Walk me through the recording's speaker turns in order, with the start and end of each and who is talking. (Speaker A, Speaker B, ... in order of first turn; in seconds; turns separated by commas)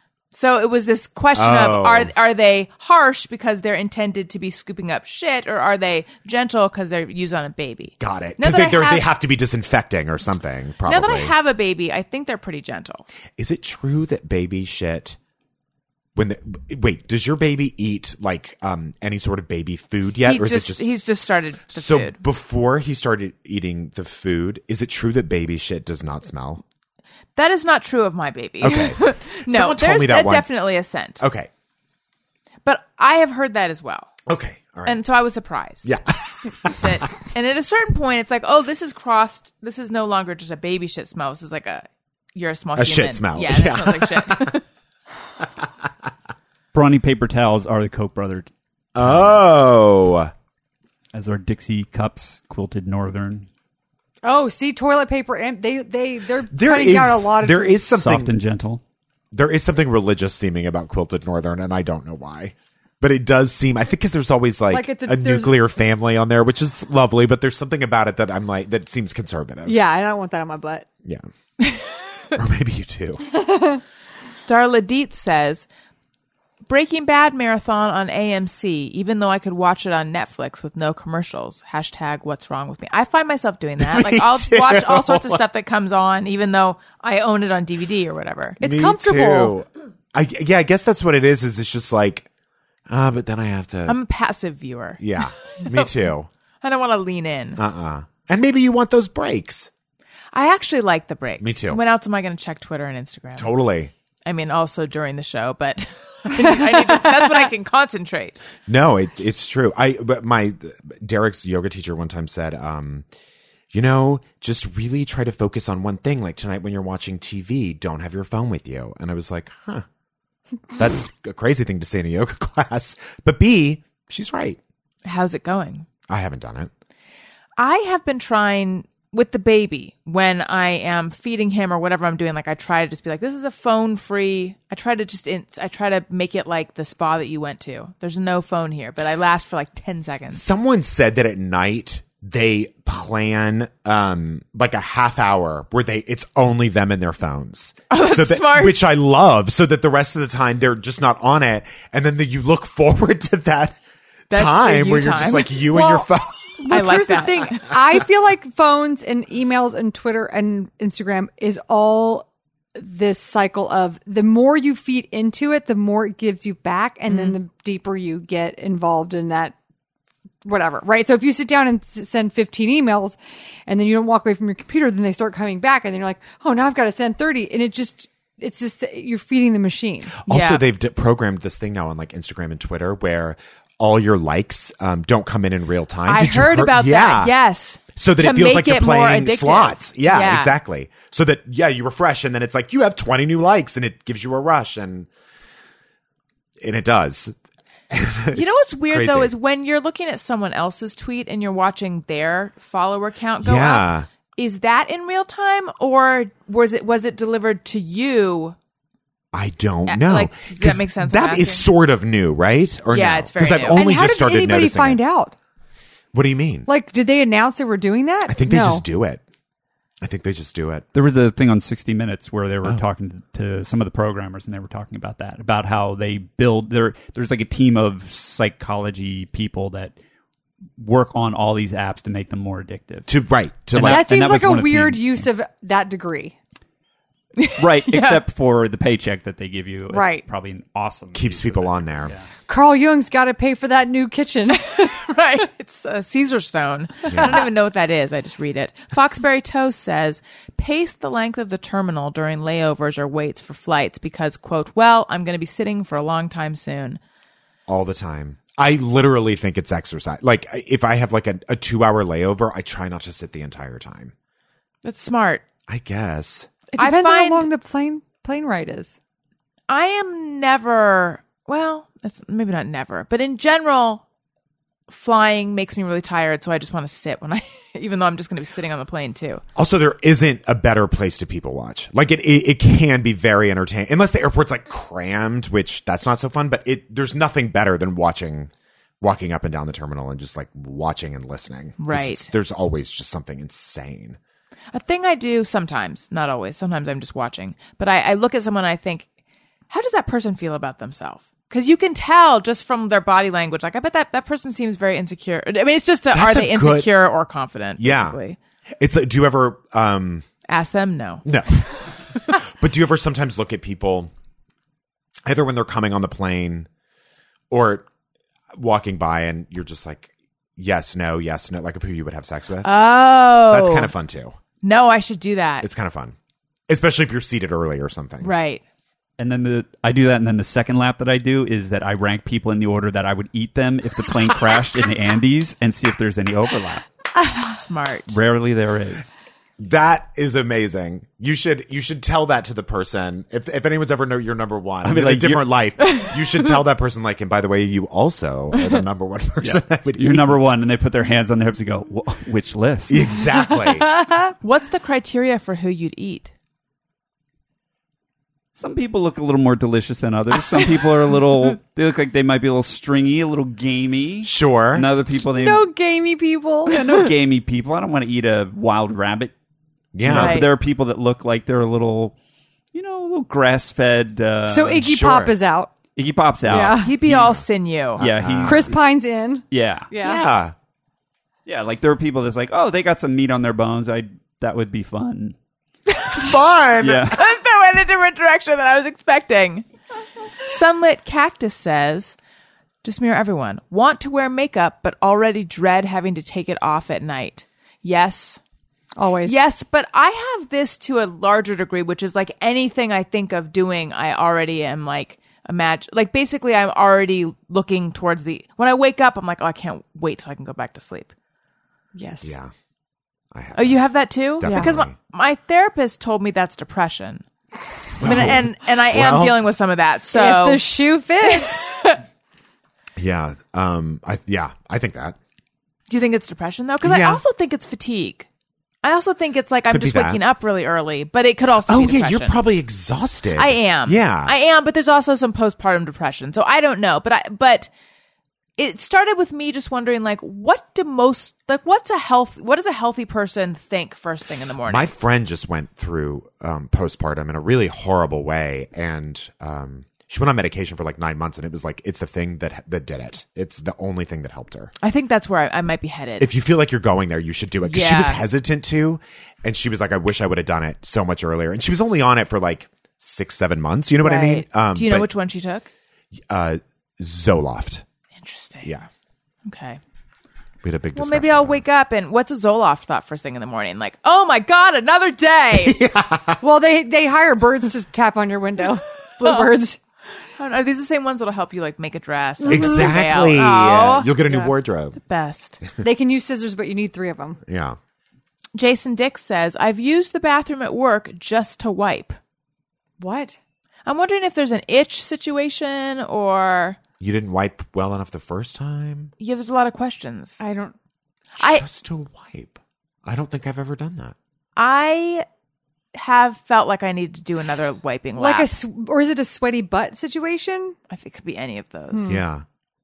Speaker A: 0.3-9.1, Speaker B: 1.3-2.1, Speaker B: 8.0-11.3, Speaker A: 10.8-13.0, Speaker B: 13.4-15.2, Speaker B: 16.1-20.8, Speaker A: 20.2-22.2, Speaker B: 21.7-26.6, Speaker A: 27.4-31.2, Speaker B: 28.6-30.5, Speaker B: 31.2-31.5, Speaker A: 32.6-34.1, Speaker B: 34.3-35.0, Speaker A: 34.9-35.9, Speaker B: 35.8-37.0, Speaker A: 36.5-44.6, Speaker B: 42.8-44.5, Speaker C: 46.7-49.4, Speaker B: 48.9-50.3, Speaker C: 51.1-53.5, Speaker D: 54.2-57.8, Speaker B: 56.5-58.3, Speaker C: 58.0-58.8, Speaker B: 59.3-69.8, Speaker D: 64.7-65.6, Speaker D: 69.7-70.9, Speaker B: 72.3-73.2, Speaker D: 73.3-73.8, Speaker A: 74.5-75.7, Speaker A: 76.7-88.6, Speaker B: 83.8-85.4, Speaker B: 88.6-92.3, Speaker D: 88.6-89.5, Speaker B: 92.9-94.0, Speaker A: 93.9-95.0, Speaker B: 95.0-96.3, Speaker A: 95.5-95.9, Speaker A: 96.6-97.6, Speaker B: 97.6-99.7, Speaker A: 100.3-103.5, Speaker B: 101.4-101.8, Speaker B: 103.4-103.9, Speaker A: 104.2-108.4, Speaker D: 106.6-106.9, Speaker B: 108.7-113.0, Speaker B: 113.7-119.8, Speaker B: 120.7-124.6, Speaker A: 125.0-125.9, Speaker B: 126.1-126.7, Speaker A: 127.6-140.4, Speaker B: 140.3-153.8, Speaker A: 147.9-148.8, Speaker A: 154.3-155.6, Speaker B: 154.3-156.6, Speaker D: 155.7-169.5, Speaker A: 156.7-157.9, Speaker A: 167.1-167.3, Speaker D: 170.4-180.2, Speaker B: 180.2-187.3, Speaker A: 180.2-180.6, Speaker A: 186.1-190.6, Speaker B: 187.9-195.1, Speaker B: 196.6-197.3, Speaker B: 197.9-199.3, Speaker A: 198.3-208.6, Speaker B: 203.4-204.1, Speaker B: 209.3-215.0, Speaker A: 209.8-211.7, Speaker A: 212.9-213.9, Speaker D: 213.7-215.3, Speaker B: 216.1-216.7, Speaker D: 216.7-218.8, Speaker B: 218.3-219.2, Speaker B: 220.0-220.8, Speaker C: 220.9-229.9, Speaker C: 230.8-233.1, Speaker B: 233.1-234.1, Speaker C: 233.7-235.3, Speaker D: 233.8-236.3, Speaker A: 237.3-238.2, Speaker C: 237.6-242.3, Speaker D: 239.9-240.2, Speaker B: 241.1-242.1, Speaker D: 242.5-244.9, Speaker A: 244.8-257.0, Speaker B: 247.1-247.4, Speaker B: 257.7-264.1, Speaker A: 264.8-265.4, Speaker B: 265.7-266.5, Speaker D: 266.7-268.9, Speaker A: 266.8-267.5, Speaker A: 269.7-274.0, Speaker A: 274.9-279.4, Speaker B: 279.6-294.2, Speaker A: 291.8-292.3, Speaker A: 294.7-299.1, Speaker A: 299.7-308.4, Speaker B: 306.1-306.9, Speaker B: 307.8-308.2, Speaker B: 308.8-310.2, Speaker A: 310.5-311.2, Speaker B: 311.2-314.1, Speaker B: 315.2-316.7, Speaker B: 317.5-317.9, Speaker B: 318.5-322.7, Speaker A: 322.6-323.9, Speaker B: 323.5-324.4, Speaker A: 324.6-325.7, Speaker B: 325.6-326.1, Speaker B: 326.7-328.3, Speaker A: 328.2-328.6, Speaker C: 329.2-336.8, Speaker A: 337.2-338.2, Speaker C: 338.1-339.1, Speaker B: 339.6-350.6, Speaker C: 344.8-345.5, Speaker A: 345.8-346.1, Speaker C: 349.4-353.2, Speaker B: 352.9-353.9, Speaker A: 354.4-356.3, Speaker C: 358.6-365.6, Speaker B: 364.2-364.9, Speaker D: 365.3-366.8, Speaker C: 366.7-369.3, Speaker B: 369.9-370.4, Speaker C: 370.0-372.1, Speaker A: 370.1-370.5, Speaker C: 372.7-375.3, Speaker D: 374.5-375.7, Speaker C: 375.9-377.2, Speaker D: 376.4-376.9, Speaker A: 376.8-378.0, Speaker B: 377.1-377.4, Speaker B: 378.0-378.7, Speaker C: 378.0-378.8, Speaker D: 378.4-380.2, Speaker C: 379.5-379.9, Speaker B: 380.0-380.5, Speaker C: 381.4-385.3, Speaker A: 385.9-386.3, Speaker B: 386.1-387.1, Speaker C: 386.2-387.2, Speaker A: 387.1-389.6, Speaker A: 390.4-392.1, Speaker A: 392.8-398.4, Speaker D: 398.9-399.4, Speaker A: 399.2-411.1, Speaker D: 411.9-412.3, Speaker B: 412.2-412.5, Speaker B: 413.3-414.9, Speaker A: 413.5-417.2, Speaker D: 414.4-414.7, Speaker B: 418.0-419.4, Speaker A: 418.0-420.7, Speaker D: 420.1-421.7, Speaker A: 421.2-422.0, Speaker B: 423.0-425.2, Speaker A: 425.9-428.3, Speaker B: 426.8-427.2, Speaker A: 428.8-432.4, Speaker B: 429.7-430.2, Speaker B: 431.7-434.3, Speaker A: 433.3-437.7, Speaker A: 438.6-444.9, Speaker B: 444.6-454.7, Speaker A: 454.8-456.3, Speaker B: 456.2-465.1, Speaker A: 457.6-458.2, Speaker A: 464.0-465.7, Speaker B: 466.1-467.8, Speaker A: 468.2-468.7, Speaker A: 469.4-469.8, Speaker B: 470.6-471.6, Speaker A: 470.9-475.9, Speaker B: 475.5-476.4, Speaker D: 476.4-479.8, Speaker A: 479.2-479.5, Speaker A: 480.4-485.6, Speaker D: 482.4-482.9, Speaker B: 482.5-485.0, Speaker D: 485.8-487.4, Speaker B: 487.4-487.8, Speaker A: 488.5-492.2, Speaker D: 493.0-493.4, Speaker A: 493.9-496.8, Speaker B: 497.0-499.1, Speaker A: 499.2-500.4, Speaker D: 500.4-500.7, Speaker A: 501.4-501.6, Speaker B: 501.4-504.1, Speaker A: 504.6-505.2, Speaker A: 505.9-508.5, Speaker D: 508.2-510.8, Speaker A: 510.9-512.2, Speaker D: 511.9-512.2, Speaker B: 512.1-512.4